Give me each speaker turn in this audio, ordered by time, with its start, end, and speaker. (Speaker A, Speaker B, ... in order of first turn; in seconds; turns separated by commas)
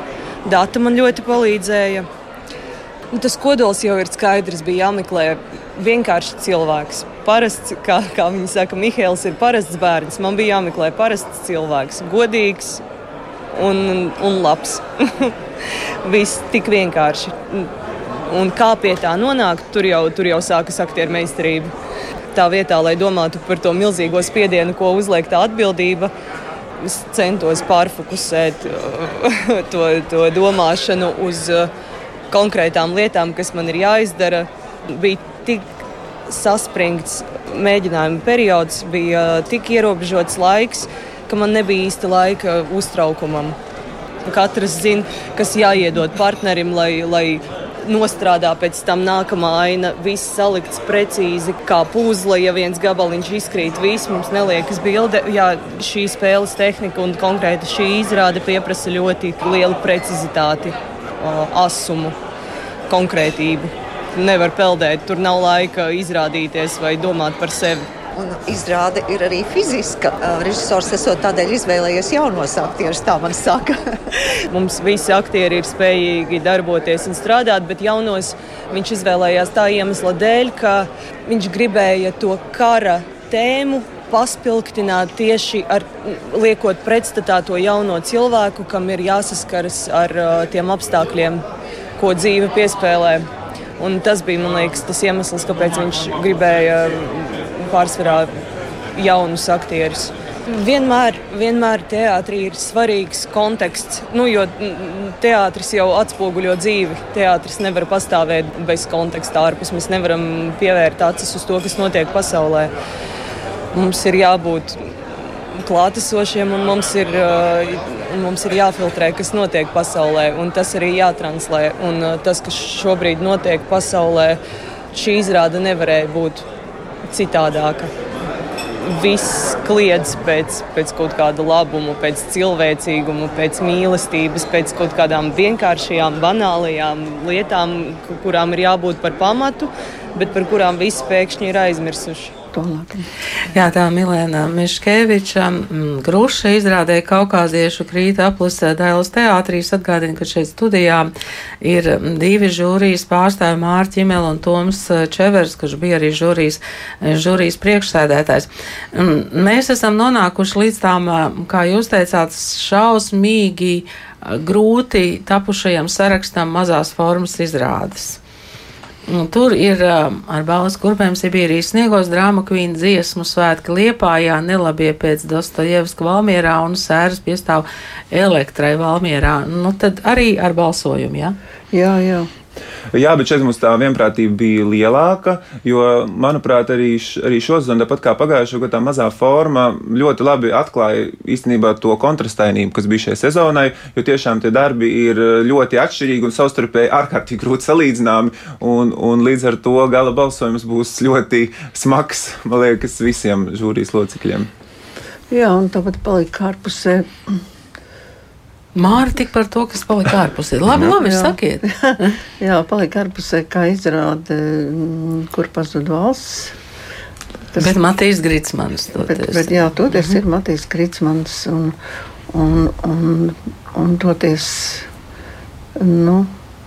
Speaker A: 0.4-2.1, Speaker A: 3.1-12.8, Speaker A: 13.5-15.3, Speaker A: 16.0-17.7, Speaker A: 18.3-21.7, Speaker A: 22.3-26.1, Speaker A: 26.8-31.7, Speaker A: 32.3-35.7, Speaker A: 36.3-43.6, Speaker A: 44.2-62.2, Speaker A: 62.9-67.9, Speaker B: 68.2-73.8, Speaker A: 74.5-91.4, Speaker A: 92.0-93.3, Speaker A: 93.8-98.3, Speaker A: 98.9-112.7, Speaker A: 113.7-114.9, Speaker A: 115.5-124.4, Speaker A: 124.9-126.5, Speaker A: 127.1-127.9, Speaker A: 128.8-142.3, Speaker C: 142.5-143.1, Speaker D: 143.5-151.1, Speaker D: 151.6-168.2, Speaker D: 169.1-181.3, Speaker C: 181.7-182.3, Speaker E: 182.9-204.5, Speaker C: 205.3-207.4, Speaker D: 208.8-212.1, Speaker C: 211.0-216.5, Speaker C: 217.5-217.8, Speaker D: 217.6-220.2, Speaker C: 219.1-221.8, Speaker C: 222.3-224.9, Speaker C: 225.8-226.3